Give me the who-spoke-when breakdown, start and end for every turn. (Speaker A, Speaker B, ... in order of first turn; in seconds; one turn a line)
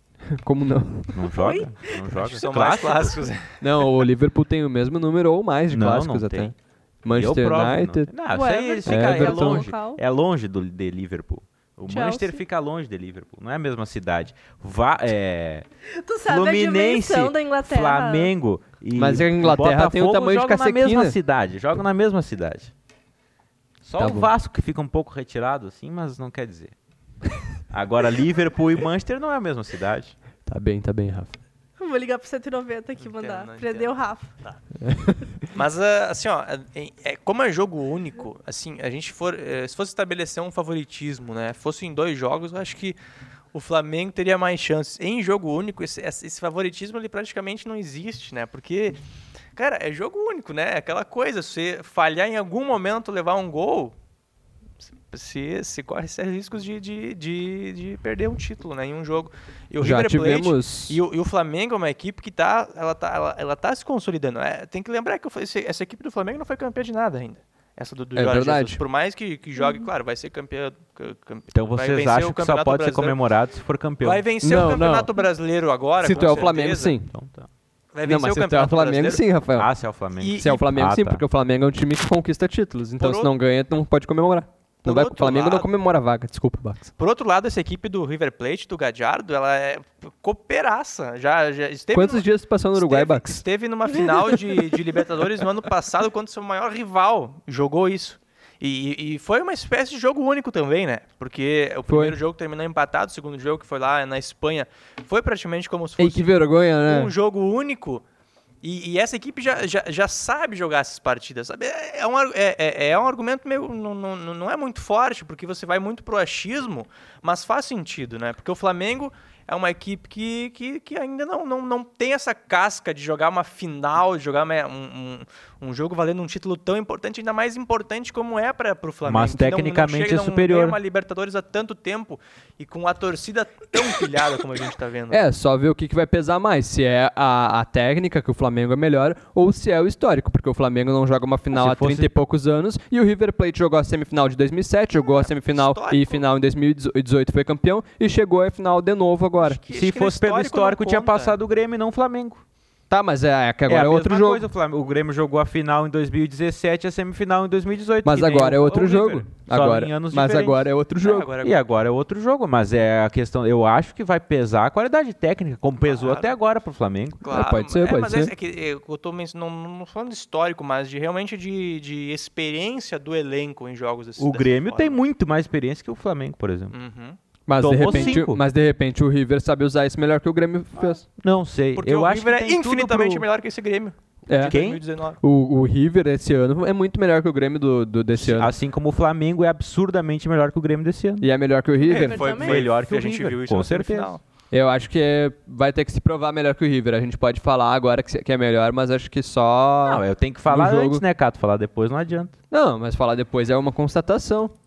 Speaker A: 0.3-1.4
Speaker B: 1.1-3.2
Speaker C: 1.3-2.0
Speaker D: 2.2-3.9
Speaker A: 3.6-8.1
Speaker B: 5.7-6.5
Speaker B: 7.1-15.7
Speaker C: 8.3-10.0
Speaker A: 8.8-9.7
Speaker C: 11.9-12.4
Speaker C: 15.9-18.3
Speaker B: 16.3-22.7
Speaker A: 19.0-21.1
Speaker B: 23.8-26.7
Speaker A: 24.0-24.3
Speaker B: 27.7-30.1
Speaker A: 30.5-31.4
Speaker C: 31.8-34.3
Speaker D: 33.0-34.6
Speaker A: 34.8-35.4
Speaker D: 35.5-43.0
Speaker D: 43.5-49.0
Speaker D: 49.6-54.0
Speaker D: 55.1-73.2
Speaker A: 59.8-61.0
Speaker A: 68.2-68.8
Speaker C: 69.6-69.9
Speaker B: 71.5-74.2
Speaker D: 74.0-77.0
Speaker A: 74.4-75.1
Speaker A: 76.0-77.1
Speaker B: 77.1-77.5
Speaker D: 77.9-79.2
Speaker A: 78.0-79.7
Speaker B: 79.5-81.2
Speaker D: 80.2-80.6
Speaker A: 80.4-86.9
Speaker D: 83.0-83.3
Speaker D: 84.8-85.7
Speaker D: 87.0-108.0
Speaker A: 91.9-93.4
Speaker A: 101.9-102.2
Speaker A: 106.0-107.1
Speaker D: 108.6-135.3
Speaker B: 129.1-130.8
Speaker A: 135.1-149.6
Speaker B: 141.5-142.1
Speaker D: 145.0-146.3
Speaker D: 149.4-151.4
Speaker B: 149.7-152.4
Speaker A: 152.9-154.4
Speaker B: 153.7-160.6
Speaker A: 158.1-161.3
Speaker D: 161.0-161.6
Speaker B: 161.4-167.2
Speaker D: 165.8-166.3
Speaker D: 167.2-175.0
Speaker A: 167.3-168.3
Speaker B: 174.2-176.8
Speaker D: 176.7-177.2
Speaker A: 177.5-181.0
Speaker B: 177.6-178.4
Speaker D: 177.8-178.2
Speaker B: 181.0-183.3
Speaker D: 181.8-185.2
Speaker A: 184.3-184.6
Speaker B: 184.4-184.8
Speaker A: 185.2-188.5
Speaker B: 188.1-191.3
Speaker A: 191.2-192.3
Speaker C: 191.8-192.6
Speaker D: 191.8-194.2
Speaker B: 192.4-194.2
Speaker A: 194.5-201.0
Speaker B: 199.8-202.3
Speaker A: 202.5-204.5